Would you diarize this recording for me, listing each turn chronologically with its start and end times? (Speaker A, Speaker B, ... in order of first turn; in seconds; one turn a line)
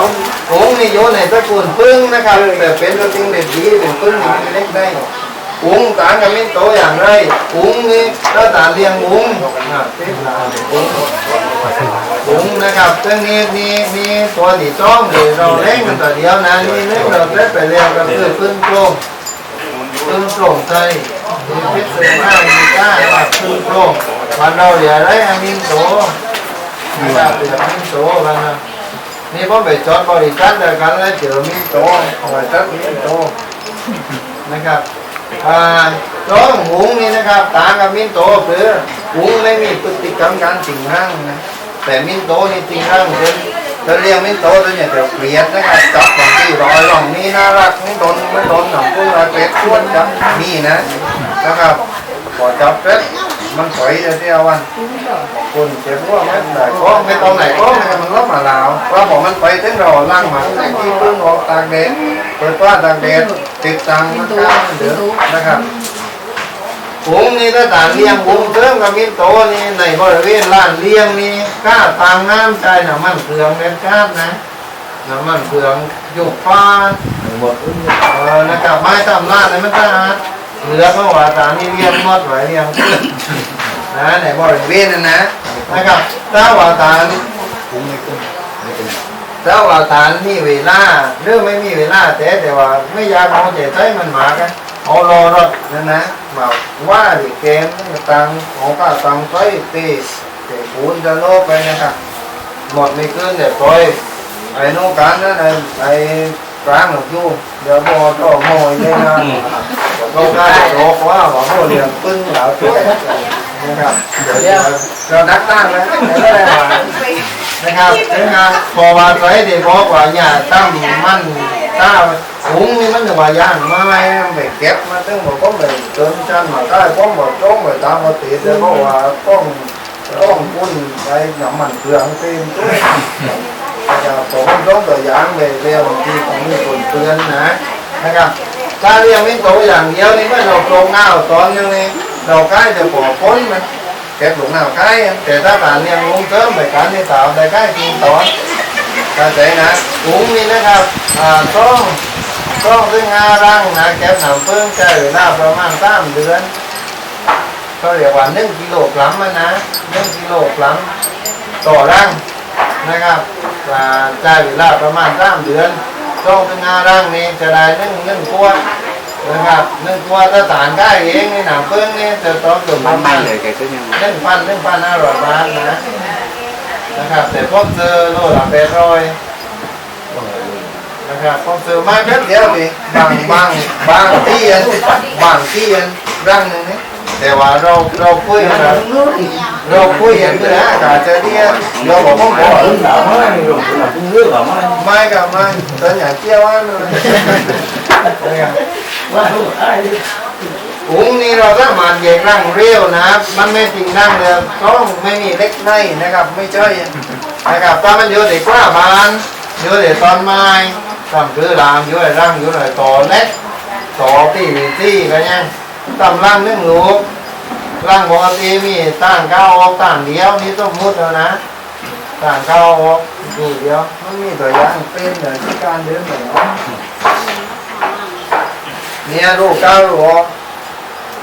Speaker A: 0.5-5.1
Speaker A: 5.6-11.1
Speaker A: 12.2-19.0
Speaker A: 20.1-26.1
Speaker A: 27.0-28.6
Speaker A: 29.3-33.3
Speaker A: 34.5-34.8
Speaker A: 35.4-50.9
Speaker A: 51.4-51.8
Speaker A: 52.3-54.7
Speaker A: 55.3-65.7
Speaker A: 67.0-74.4
Speaker A: 75.0-77.0
Speaker B: 77.3-77.7
Speaker A: 78.0-83.1
Speaker A: 83.9-87.2
Speaker B: 87.8-88.2
Speaker A: 89.4-102.0
Speaker A: 102.7-104.0
Speaker A: 104.5-116.9
Speaker A: 117.6-133.3
Speaker A: 133.9-143.6
Speaker A: 144.2-148.3
Speaker A: 149.2-152.0
Speaker A: 152.6-156.5
Speaker A: 157.8-160.9
Speaker A: 161.6-162.2
Speaker A: 162.8-168.6
Speaker A: 169.2-173.3
Speaker B: 172.9-173.9
Speaker A: 173.9-175.8
Speaker A: 176.9-179.1
Speaker A: 181.1-188.9
Speaker B: 188.9-189.4
Speaker A: 189.6-192.9
Speaker B: 191.6-192.3
Speaker B: 192.8-194.6
Speaker A: 194.8-198.6
Speaker B: 199.1-200.0
Speaker A: 200.9-206.9
Speaker A: 207.5-213.3
Speaker A: 214.0-217.1
Speaker A: 217.8-221.4
Speaker A: 222.2-226.6
Speaker A: 229.1-230.3